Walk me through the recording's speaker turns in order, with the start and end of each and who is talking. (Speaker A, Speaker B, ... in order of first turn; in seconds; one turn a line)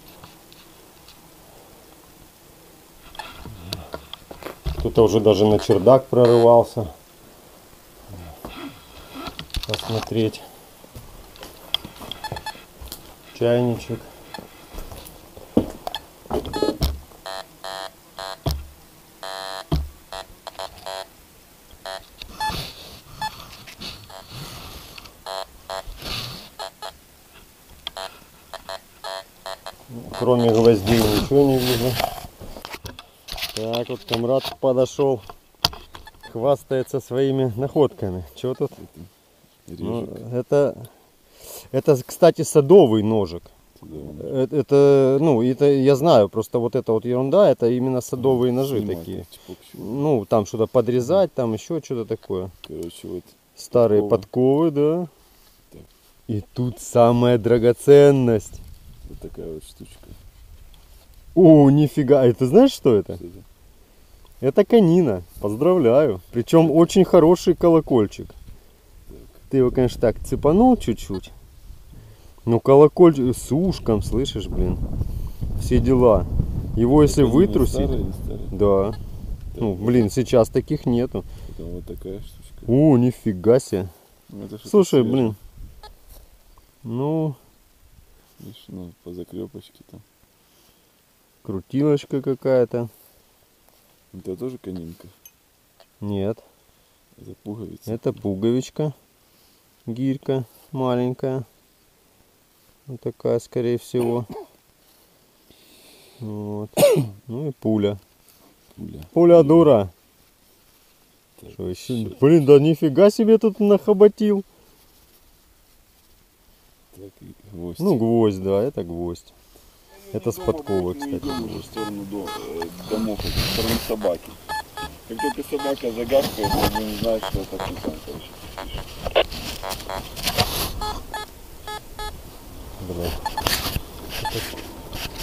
Speaker A: 4.8-6.9
Speaker A: 9.7-10.4
Speaker A: 13.3-14.1
Speaker A: 29.9-32.0
Speaker A: 33.5-35.2
Speaker A: 36.2-38.8
Speaker B: 38.8-39.1
Speaker B: 39.7-40.2
Speaker A: 39.8-40.9
Speaker A: 41.4-43.5
Speaker B: 43.8-44.3
Speaker A: 44.2-49.2
Speaker B: 48.2-50.0
Speaker A: 49.8-52.5
Speaker B: 52.6-54.2
Speaker A: 53.6-55.1
Speaker A: 56.3-58.6
Speaker B: 59.1-60.2
Speaker A: 61.3-63.2
Speaker B: 63.2-63.4
Speaker A: 64.4-68.3
Speaker B: 66.6-66.9
Speaker B: 69.1-69.4
Speaker A: 69.5-71.3
Speaker A: 72.5-74.8
Speaker A: 75.6-78.0
Speaker B: 77.0-78.5
Speaker A: 78.5-79.0
Speaker B: 79.5-80.1
Speaker A: 79.6-81.2
Speaker B: 81.5-82.7
Speaker A: 82.7-83.9
Speaker B: 84.3-85.4
Speaker A: 84.6-85.4
Speaker A: 86.8-87.4
Speaker B: 88.4-90.0
Speaker A: 91.4-92.9
Speaker B: 94.1-95.1
Speaker A: 96.0-96.4
Speaker B: 97.2-98.1
Speaker A: 97.9-98.9
Speaker A: 99.9-101.5
Speaker A: 102.9-104.3
Speaker A: 106.2-108.0
Speaker B: 108.8-109.7
Speaker A: 109.1-109.9
Speaker A: 111.5-114.4
Speaker B: 116.9-118.0
Speaker A: 117.8-119.3
Speaker B: 120.1-124.4
Speaker A: 120.1-121.7
Speaker B: 125.1-128.8
Speaker A: 132.8-133.2